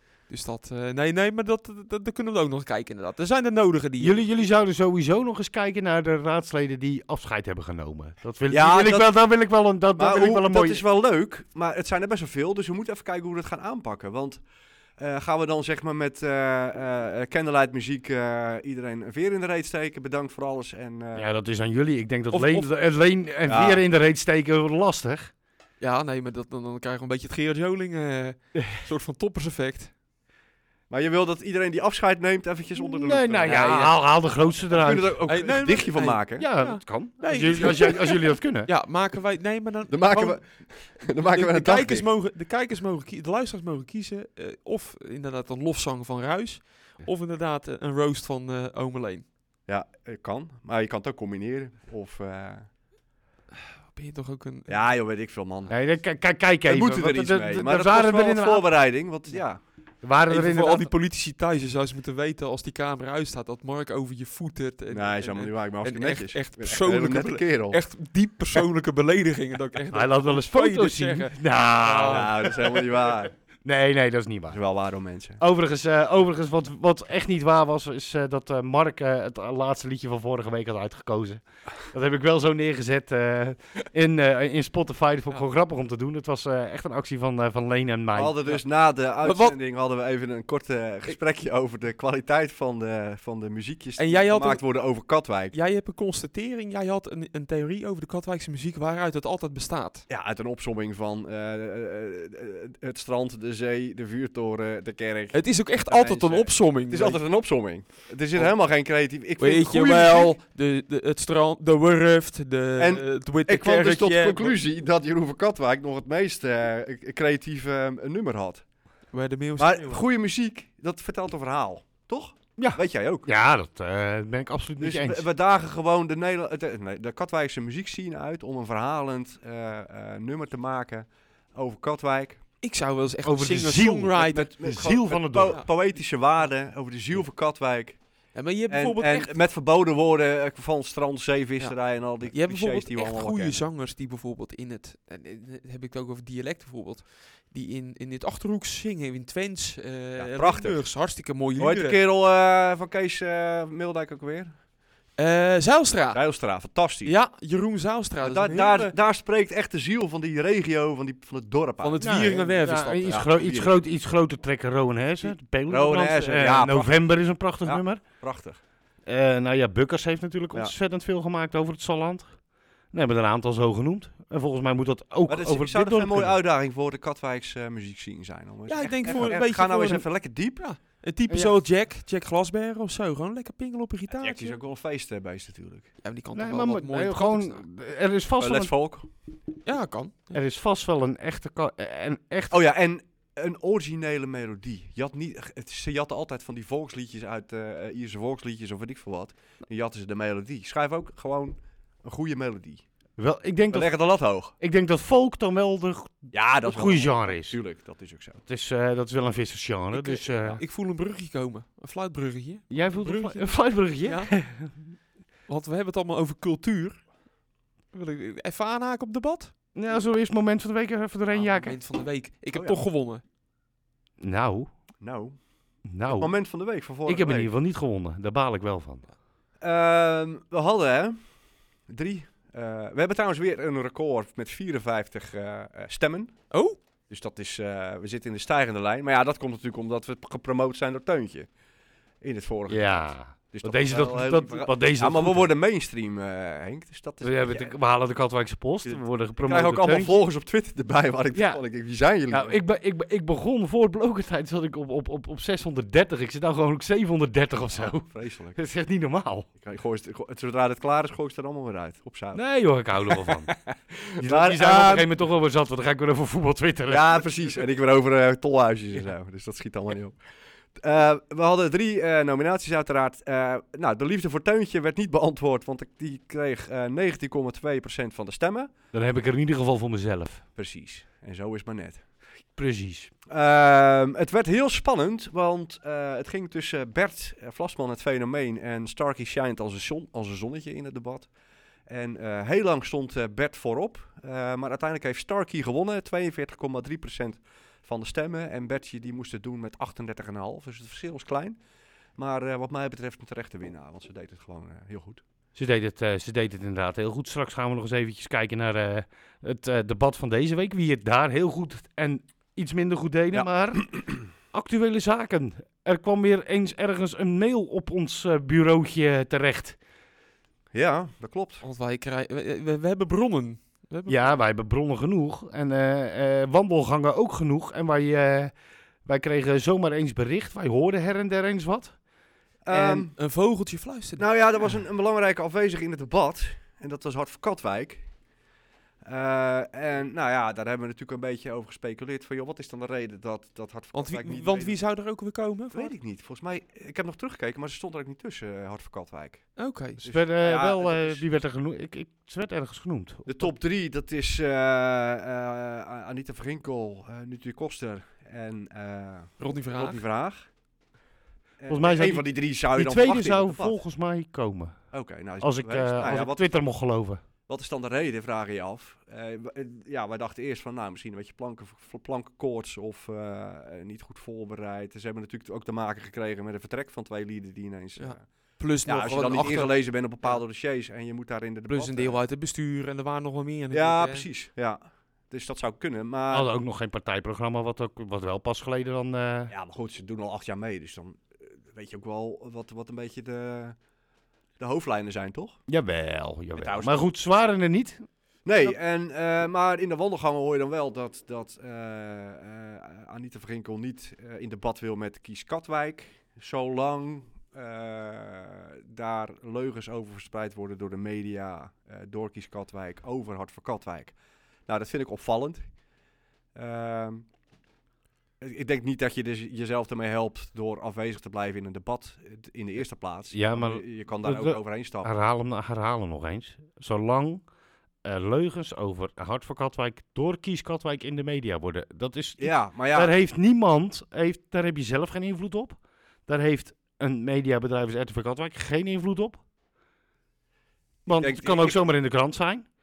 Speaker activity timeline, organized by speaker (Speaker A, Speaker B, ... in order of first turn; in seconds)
Speaker A: 0.3-4.2, 22.3-22.7, 25.8-29.9, 33.4-33.9, 35.2-40.4, 40.9-49.3, 53.9-54.7, 60.3-72.3, 89.2-89.5, 94.0-94.6, 95.5-100.0, 105.3-107.2, 109.4-114.6, 119.1-120.0, 132.6-134.9, 135.5-135.7, 138.3-139.3, 141.6-152.0, 155.2-156.2, 157.0-158.9, 161.8-163.2, 178.7-184.6, 186.0-187.6, 189.6-190.4, 209.9-214.3, 215.5-217.0, 217.9-219.5, 221.3-223.2, 236.5-236.8, 321.6-324.4, 333.1-334.2, 343.9-345.9, 349.6-350.0, 359.4-360.0, 378.0-380.4, 381.7-384.2
Speaker B: 4.0-10.8, 21.1-25.3, 32.8-35.2, 36.4-38.7, 55.7-58.7, 60.0-60.9, 69.9-72.8, 73.6-74.6, 75.4-88.6, 122.6-125.2, 133.2-135.6, 162.0-168.0, 169.1-172.3, 172.9-176.4, 179.1-179.3, 181.3-181.5, 186.3-188.7, 190.3-192.6, 203.2-203.9, 204.6-207.6, 208.5-210.6, 212.7-214.9, 219.7-221.8, 224.2-224.7, 225.8-226.3, 227.1-229.1, 242.7-245.5, 247.2-250.2, 251.3-251.6, 252.3-259.5, 262.3-263.5, 264.2-267.2, 278.9-280.4, 282.6-283.1, 305.6-319.8, 324.1-328.5, 329.0-332.0, 332.7-333.1, 350.0-353.5, 361.7-364.8, 365.4-367.2, 386.3-389.5, 395.7-398.1, 423.3-427.4, 428.0-439.4, 441.1-442.6
Speaker C: 8.5-9.2, 10.0-14.4, 15.0-21.2, 23.4-23.8, 30.9-36.5, 37.6-37.9, 39.9-42.1, 49.7-52.7, 54.7-55.9, 56.6-59.6, 64.9-67.8, 72.0-73.3, 74.5-75.4, 88.1-95.5, 100.1-110.4, 112.8-118.7, 119.6-123.3, 124.8-132.4, 134.2-138.0, 138.7-143.6, 150.2-154.6, 156.1-157.2, 158.2-162.4, 163.1-163.8, 165.2-168.6, 175.3-180.7, 184.2-185.9, 188.4-189.1, 192.5-202.8, 203.7-204.5, 206.3-208.4, 222.5-222.8, 225.0-225.4, 226.1-227.5, 229.6-231.2, 231.9-236.4, 237.1-241.5, 242.2-247.7, 248.8-252.6, 257.7-258.6, 259.6-262.4, 263.1-265.1, 266.9-270.2, 270.8-278.7, 280.6-282.0, 283.3-291.3, 291.9-301.6, 302.2-305.2, 313.3-314.2, 320.7-321.6, 332.6-333.1, 334.2-338.1, 339.0-344.8, 345.7-351.2, 353.2-360.4, 361.6-363.8, 364.9-366.5, 367.5-378.2, 378.8-382.2, 383.7-386.5, 389.5-393.7, 394.6-395.6, 396.6-397.1, 398.4-414.1, 414.7-415.6, 416.5-417.2, 418.4-425.1, 432.4-433.1, 441.1-441.9